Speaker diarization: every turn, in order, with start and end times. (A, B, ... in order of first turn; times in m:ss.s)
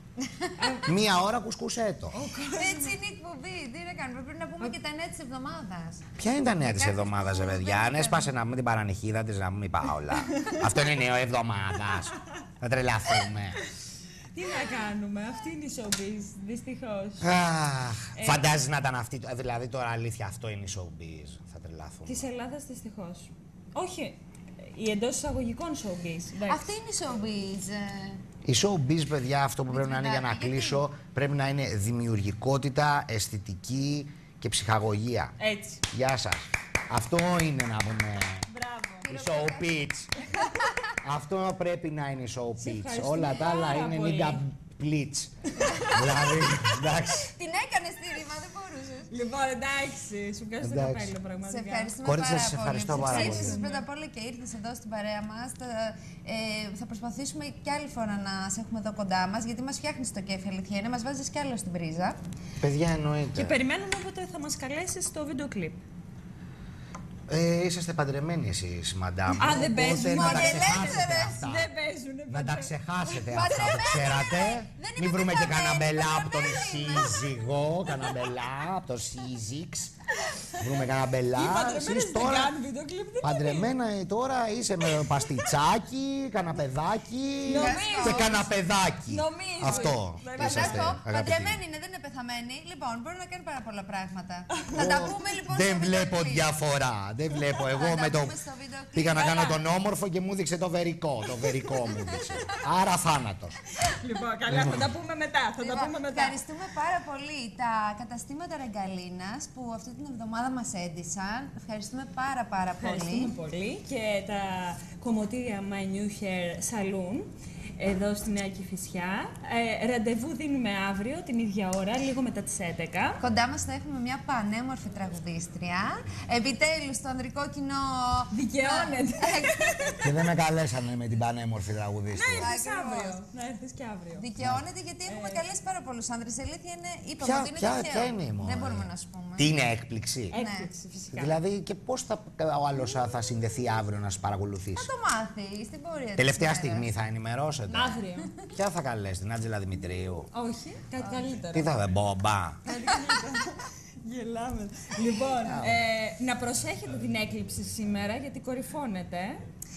0:00.2-0:00.8 A
0:00.6-0:00.9 B
0:00.8-0:02.2 C
0:02.1-0:03.0 B
0:02.5-0:08.3 A
0:06.2-0:13.6 C
0:14.3-0:17.3 B
0:17.2-0:22.3 C
0:18.2-0:18.4 B
0:22.1-0:26.7 B
0:26.5-0:28.2 A
0:28.4-0:35.3 C
0:29.7-0:30.8 A
0:35.4-0:35.8 B
0:35.9-0:38.4 C
0:38.5-0:39.1 B
0:39.0-0:40.9 A
0:39.1-0:40.1 C
0:41.0-0:47.3 C
0:42.6-0:44.4 B
0:45.6-0:46.0 B
0:45.7-0:49.2 A
0:49.1-0:52.0 B
0:50.6-0:51.1 C
0:51.4-1:02.2 A
0:52.0-0:53.6 C
0:52.9-0:53.9 B
1:02.6-1:03.6 C
1:03.3-1:05.8 B
1:07.3-1:11.7 C
1:09.4-1:13.5 B
1:09.5-1:11.5 A
1:12.3-1:20.0 C
1:13.3-1:18.1 A
1:20.6-1:22.6 C
1:21.3-1:23.7 B
1:23.2-1:31.6 C
1:25.0-1:25.5 B
1:27.5-1:28.5 B
1:27.5-1:28.4 A
1:29.1-1:31.0 B
1:29.8-1:36.5 A
1:34.7-1:38.4 C
1:37.6-1:39.5 A
1:38.9-1:43.6 C
1:39.2-1:39.6 B
1:41.9-1:42.6 A
1:43.8-1:46.4 B
1:44.5-1:44.9 C
1:45.6-1:53.4 A
1:52.8-2:03.2 B
2:03.2-2:10.0 A
2:08.3-2:10.1 B
2:10.0-2:12.5 C
2:12.1-2:14.3 B
2:12.4-2:13.2 A
2:14.2-2:19.6 A
2:14.4-2:14.6 C
2:15.1-2:15.4 B
2:17.2-2:20.4 C
2:20.3-2:21.4 B
2:20.3-2:20.7 A
2:21.1-2:24.9 C
2:24.8-2:26.9 A
2:26.2-2:30.3 C
2:27.7-2:28.4 B
2:30.3-2:31.8 B
2:31.0-2:31.3 A
2:31.5-2:32.7 C
2:32.6-2:39.4 B
2:32.7-2:33.4 A
2:35.4-2:35.8 C